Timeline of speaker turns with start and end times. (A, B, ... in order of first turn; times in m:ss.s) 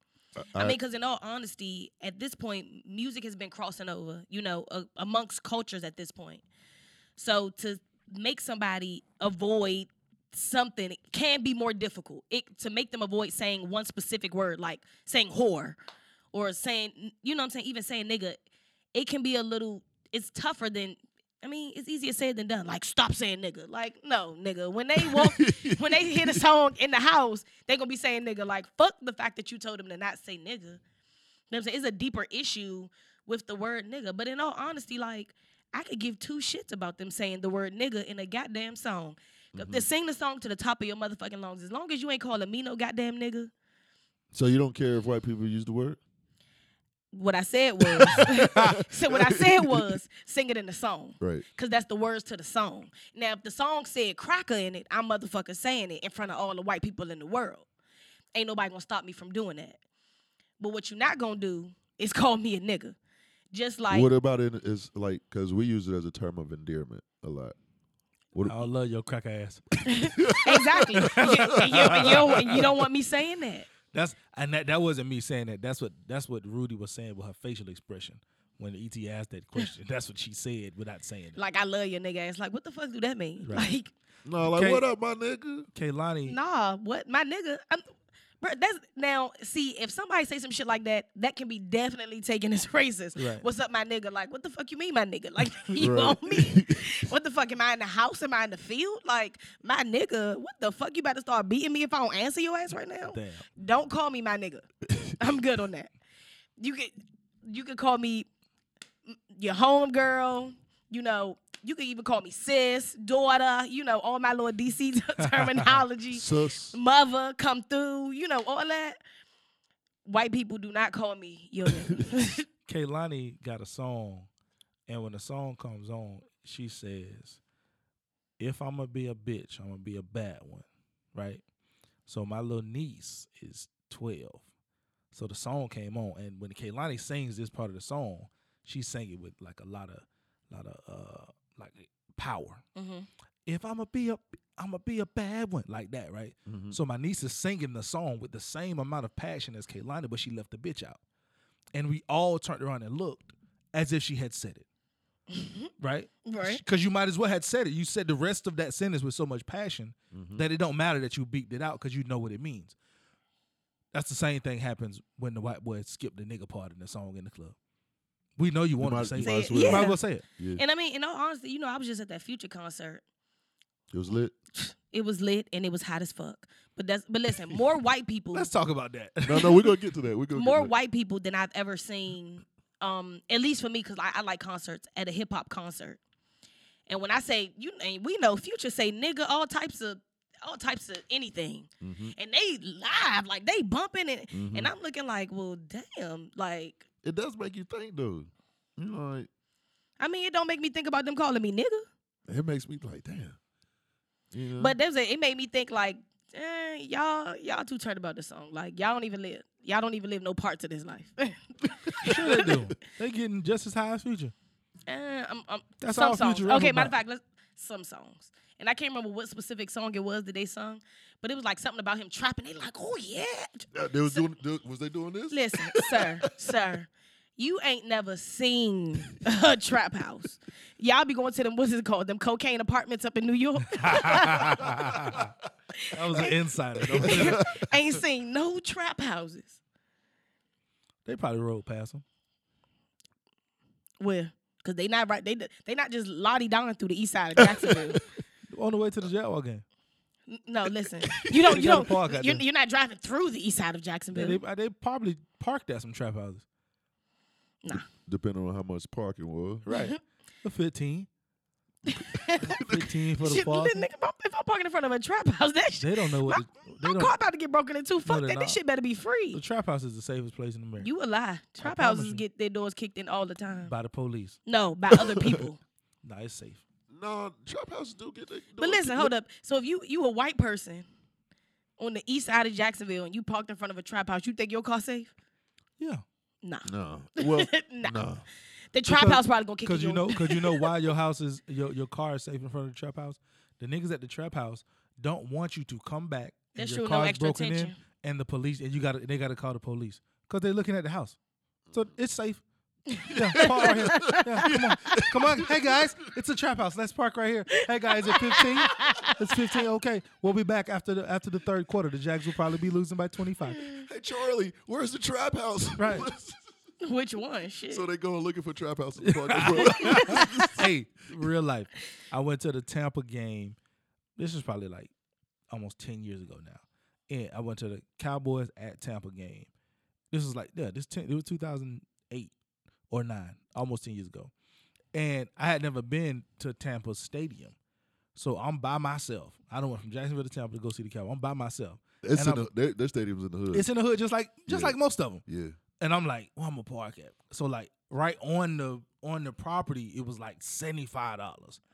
0:00.4-0:00.8 A
0:00.6-0:06.4 B
0:07.2-0:15.8 B
0:16.3-0:18.4 B
0:18.9-0:30.8 B
0:25.0-0:26.4 A
0:31.5-0:43.5 B
0:39.6-0:39.9 A
0:44.3-0:46.0 A
0:47.1-0:57.6 B
0:48.0-0:49.9 A
0:51.2-0:51.4 A
0:58.4-0:59.8 B
1:00.6-1:03.0 B
1:03.5-1:04.1 B
1:03.9-1:07.6 A
1:08.3-1:08.7 A
1:08.4-1:10.4 C
1:09.9-1:13.7 B
1:10.2-1:12.8 A
1:10.9-1:12.7 C
1:13.9-1:21.4 C
1:21.4-1:23.9 B
1:23.4-1:23.7 C
1:24.2-1:25.7 A
1:24.4-1:24.9 C
1:25.7-1:26.4 C
1:26.3-1:27.9 B
1:28.4-1:45.9 B
1:33.2-1:33.4 C
1:35.8-1:37.0 A
1:43.0-1:43.5 C
1:46.6-1:48.3 B
1:49.1-1:59.0 B
1:55.2-1:55.8 C
1:56.1-1:56.8 A
2:00.1-2:02.5 B
2:02.6-2:04.3 C
2:04.9-2:07.4 C
2:08.4-2:11.4 C
2:12.1-2:14.4 C
2:15.1-2:22.6 C
2:22.8-2:23.1 B
2:23.5-2:31.0 C
2:26.5-2:26.8 A
2:31.7-2:34.6 C
2:35.3-2:35.7 B
2:35.8-2:42.8 C
2:36.2-2:36.6 B
2:40.1-2:40.4 A
2:43.9-2:47.6 C
2:48.4-2:50.2 C
2:48.8-2:50.6 A
2:49.2-2:50.0 B
2:50.6-2:53.0 B
2:53.9-2:54.4 A
2:54.6-2:58.5 B
2:58.3-2:59.7 C
2:59.2-3:00.7 A
3:00.4-3:06.0 B
3:06.9-3:16.9 B
3:11.8-3:12.1 A
3:14.3-3:14.7 A
3:17.0-3:19.3 A
3:20.0-3:21.9 B
3:22.3-3:23.4 A
3:24.3-3:24.8 A
3:24.6-3:32.5 B
3:32.0-3:34.3 C
3:32.0-3:32.5 A
3:34.9-3:44.2 B
3:35.8-3:36.9 C
3:43.7-3:46.1 A
3:45.3-3:54.8 B
3:53.7-3:55.3 C
3:55.7-3:59.6 B
3:55.9-3:57.7 C
3:56.9-3:57.5 A
4:01.0-4:02.0 C
4:04.0-4:08.0 B
4:07.4-4:08.0 A
4:08.5-4:09.6 C
4:10.3-4:14.4 B
4:11.0-4:11.7 A
4:11.4-4:12.4 C
4:14.1-4:16.4 C
4:18.1-4:19.6 A
4:19.6-4:21.1 C
4:19.7-4:20.0 B
4:21.9-4:29.4 B
4:22.5-4:22.8 A
4:22.5-4:23.9 C
4:25.8-4:27.1 C
4:28.0-4:28.6 C
4:29.3-4:30.9 C
4:30.8-4:33.7 B
4:31.6-4:32.2 C
4:33.6-4:34.4 C
4:34.5-4:35.6 B
4:36.0-4:36.6 C
4:36.9-4:39.1 A
4:38.6-4:40.9 B
4:41.8-4:45.1 B
4:45.8-4:46.0 C
4:46.4-4:48.0 B
4:46.6-4:48.2 A
4:48.7-4:50.7 B
4:48.9-5:01.2 C
4:56.6-4:57.8 B
5:01.7-5:02.4 C
5:02.9-5:04.5 B
5:03.1-5:13.6 C
5:03.1-5:05.8 A
5:07.6-5:09.2 B
5:13.8-5:16.4 A
5:15.8-5:16.1 C
5:16.8-5:17.8 B
5:17.7-5:20.7 A
5:19.0-5:23.6 C
5:19.8-5:20.5 B
5:24.2-5:24.9 C
5:25.5-5:29.5 C
5:30.1-5:32.3 C
5:32.9-5:34.3 C
5:34.9-5:37.6 C
5:38.2-5:42.5 C
5:42.0-5:43.7 A
5:43.5-5:45.2 C
5:44.5-5:45.6 A
5:45.8-5:51.6 C